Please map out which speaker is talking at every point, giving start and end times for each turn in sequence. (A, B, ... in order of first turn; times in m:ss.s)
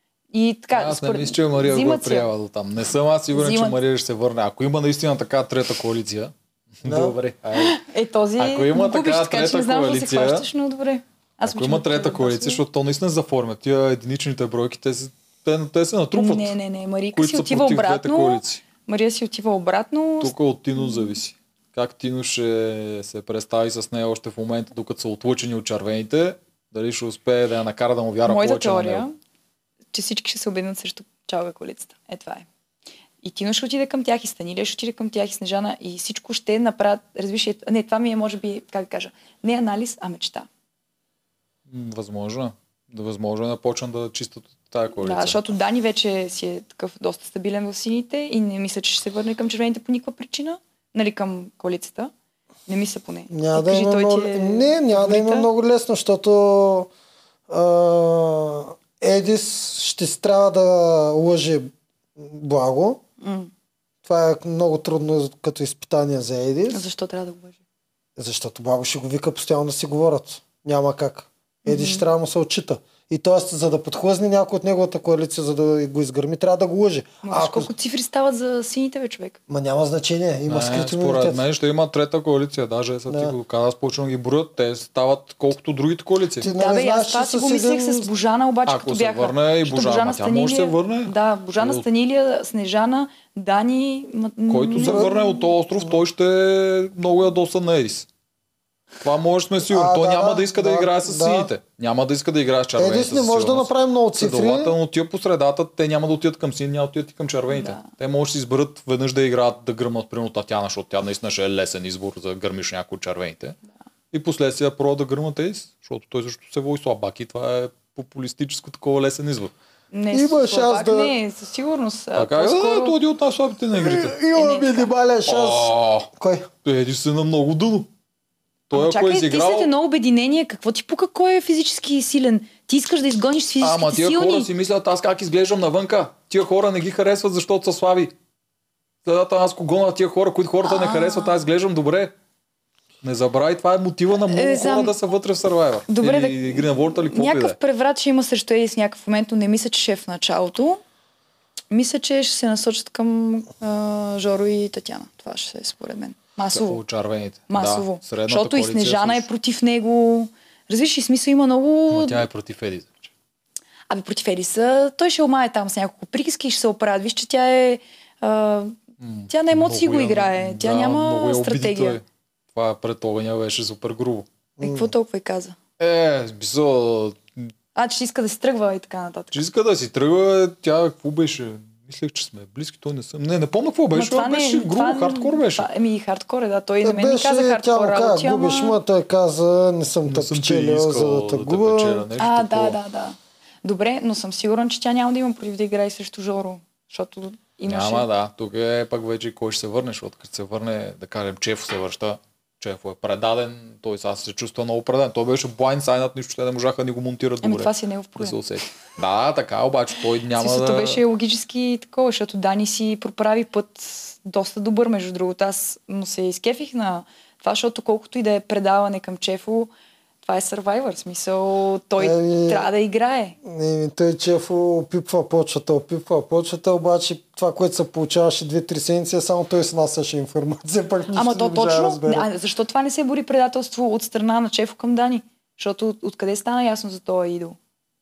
0:00.3-0:02.3 A
0:00.7-0:07.8 B
0:03.3-0:03.8 A
0:06.8-0:07.2 C
0:07.6-0:12.6 A
0:08.4-0:10.4 B
0:11.4-0:16.6 B
0:16.1-0:21.1 A
0:17.1-0:18.6 B
0:20.2-0:29.1 B
0:28.3-0:29.1 A
0:29.9-0:32.5 A
0:33.2-0:40.5 A
0:41.7-0:45.4 B
0:45.0-0:52.1 A
0:52.7-0:55.5 A
0:53.3-0:56.9 C
0:57.5-1:03.0 C
1:03.2-1:03.5 A
1:04.0-1:06.8 C
1:06.7-1:07.6 A
1:08.2-1:17.7 C
1:11.6-1:12.1 A
1:17.2-1:19.4 A
1:19.5-1:21.4 C
1:20.5-1:26.5 B
1:23.1-1:23.3 C
1:26.4-1:28.1 C
1:26.4-1:35.2 A
1:28.7-1:31.8 B
1:34.5-1:38.1 B
1:34.8-1:35.1 C
1:39.0-1:53.6 B
1:39.7-1:41.5 C
1:42.8-1:44.8 C
1:47.5-1:47.8 A
1:54.1-1:59.5 B
1:59.9-2:03.0 A
2:00.1-2:01.1 C
2:02.2-2:04.2 B
2:03.8-2:06.5 C
2:04.3-2:04.9 A
2:05.3-2:06.1 B
2:06.6-2:07.9 B
2:08.7-2:09.7 B
2:08.7-2:14.5 A
2:13.6-2:18.1 B
2:19.0-2:22.1 B
2:20.6-2:21.4 A
2:23.0-2:27.6 B
2:24.1-2:25.0 A
2:25.9-2:30.8 A
2:31.7-2:36.8 A
2:36.5-2:39.3 B
2:37.5-2:42.3 A
2:41.9-2:43.1 B
2:43.9-2:48.8 A
2:49.0-2:52.0 B
2:49.3-2:52.0 A
2:52.6-2:54.3 B
2:54.6-2:54.9 C
2:54.6-2:55.6 A
2:55.8-2:57.5 B
2:57.8-2:59.4 A
2:59.3-3:05.7 B
3:03.9-3:08.8 A
3:06.8-3:12.1 C
3:10.1-3:12.8 B
3:12.2-3:18.0 A
3:17.6-3:31.0 B
3:27.4-3:28.4 A
3:30.4-3:39.7 A
3:40.2-3:43.4 A
3:42.0-3:42.7 C
3:43.4-3:52.3 C
3:51.1-3:57.6 A